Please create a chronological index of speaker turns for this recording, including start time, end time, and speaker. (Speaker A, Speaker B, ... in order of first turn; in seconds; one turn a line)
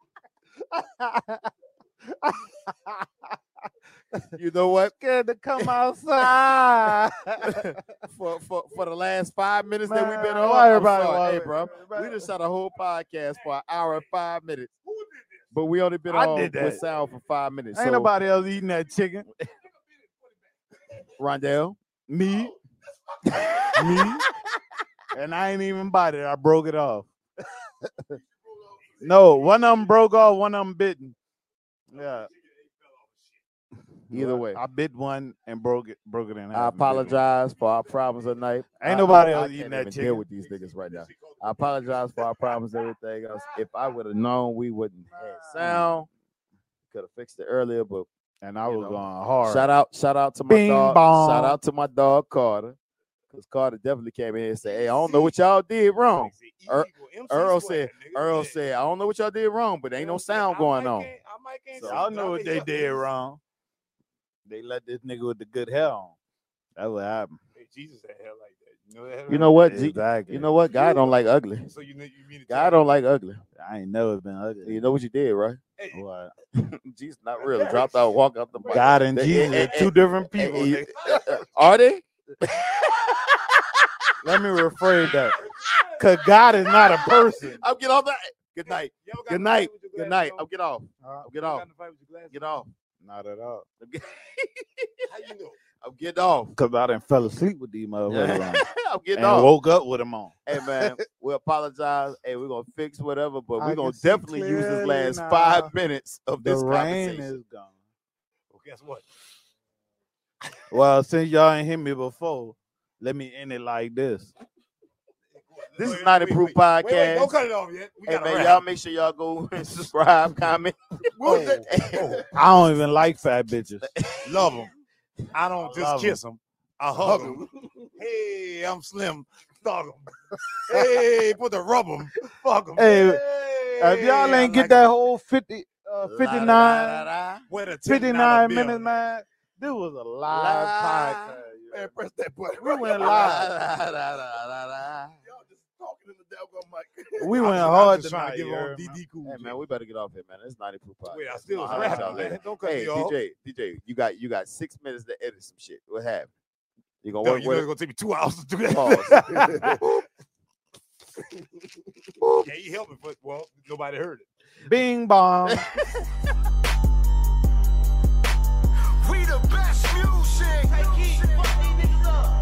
Speaker A: 0.7-1.4
Speaker A: 2.1-3.0
Speaker B: 4.3-4.9
Speaker A: 5.0-8.0
Speaker B: 5.6-6.3
Speaker B: 7.4-14.7
Speaker A: 9.8-12.2
Speaker C: 13.3-14.1
Speaker C: 14.8-15.5
Speaker B: 15.5-18.1
Speaker A: 16.1-16.8
Speaker C: 16.4-17.2
Speaker A: 17.7-19.3
Speaker C: 19.6-21.1
Speaker B: 21.2-21.8
Speaker A: 22.1-22.5
Speaker C: 22.2-22.6
Speaker C: 23.1-23.9
Speaker B: 23.3-24.2
Speaker A: 23.7-24.2
Speaker A: 25.1-27.1
Speaker D: 28.5-29.1
Speaker C: 28.7-29.9
Speaker A: 29.0-31.1
Speaker A: 31.9-32.3
Speaker C: 31.9-33.4
Speaker A: 34.1-37.2
Speaker B: 34.1-34.6
Speaker B: 36.5-46.1
Speaker A: 38.8-40.2
Speaker C: 40.4-42.6
Speaker A: 45.1-45.9
Speaker B: 46.9-48.1
Speaker A: 48.4-49.7
Speaker B: 48.6-52.8
Speaker A: 50.5-51.6
Speaker B: 53.3-61.1
Speaker C: 54.6-55.4
Speaker C: 56.2-58.6
Speaker C: 60.0-63.1
Speaker B: 61.7-62.0
Speaker A: 61.8-63.4
Speaker A: 64.5-66.1
Speaker A: 66.8-67.4
Speaker C: 67.5-69.6
Speaker B: 69.3-71.7
Speaker A: 69.6-70.5
Speaker C: 70.7-72.8
Speaker B: 72.5-73.4
Speaker A: 73.6-74.8
Speaker B: 74.6-75.6
Speaker C: 75.8-76.0
Speaker A: 75.9-76.3
Speaker B: 76.5-83.5
Speaker C: 77.4-81.5
Speaker A: 78.7-80.8
Speaker A: 84.2-85.3
Speaker C: 85.3-86.7
Speaker A: 86.0-87.6
Speaker B: 87.3-91.7
Speaker C: 88.6-90.4
Speaker C: 91.3-92.6
Speaker B: 92.3-92.7
Speaker A: 93.0-93.6
Speaker B: 93.8-94.9
Speaker C: 95.1-95.6
Speaker B: 95.8-96.5
Speaker A: 96.5-98.6
Speaker B: 98.1-99.5
Speaker A: 99.1-100.9
Speaker B: 100.5-107.3
Speaker A: 103.6-105.7
Speaker A: 106.4-107.7
Speaker C: 108.5-109.0
Speaker A: 110.7-114.3
Speaker C: 115.3-118.6
Speaker B: 115.7-117.3
Speaker B: 118.0-122.2
Speaker D: 121.2-121.7
Speaker C: 121.3-122.3
Speaker A: 122.3-123.9
Speaker B: 123.8-124.6
Speaker C: 124.2-124.7
Speaker C: 125.3-127.4
Speaker A: 125.6-126.2
Speaker D: 127.0-127.9
Speaker C: 128.0-134.5
Speaker A: 132.8-133.2
Speaker A: 133.8-137.1
Speaker B: 134.4-134.8
Speaker B: 136.0-137.4
Speaker C: 137.5-139.0
Speaker A: 137.8-142.0
Speaker B: 140.3-141.4
Speaker D: 141.7-143.2
Speaker A: 142.6-143.5
Speaker B: 142.9-145.2
Speaker D: 145.2-147.7
Speaker A: 147.2-149.0
Speaker C: 147.3-149.6
Speaker B: 149.2-156.3
Speaker C: 151.1-153.2
Speaker A: 151.6-152.4
Speaker B: 157.0-157.7
Speaker C: 157.2-159.7
Speaker B: 158.7-159.7
Speaker D: 159.3-159.6
Speaker B: 162.2-162.5
Speaker C: 162.4-164.2
Speaker A: 164.7-165.6
Speaker B: 165.5-166.0
Speaker E: 169.1-171.9
Speaker C: 170.8-171.4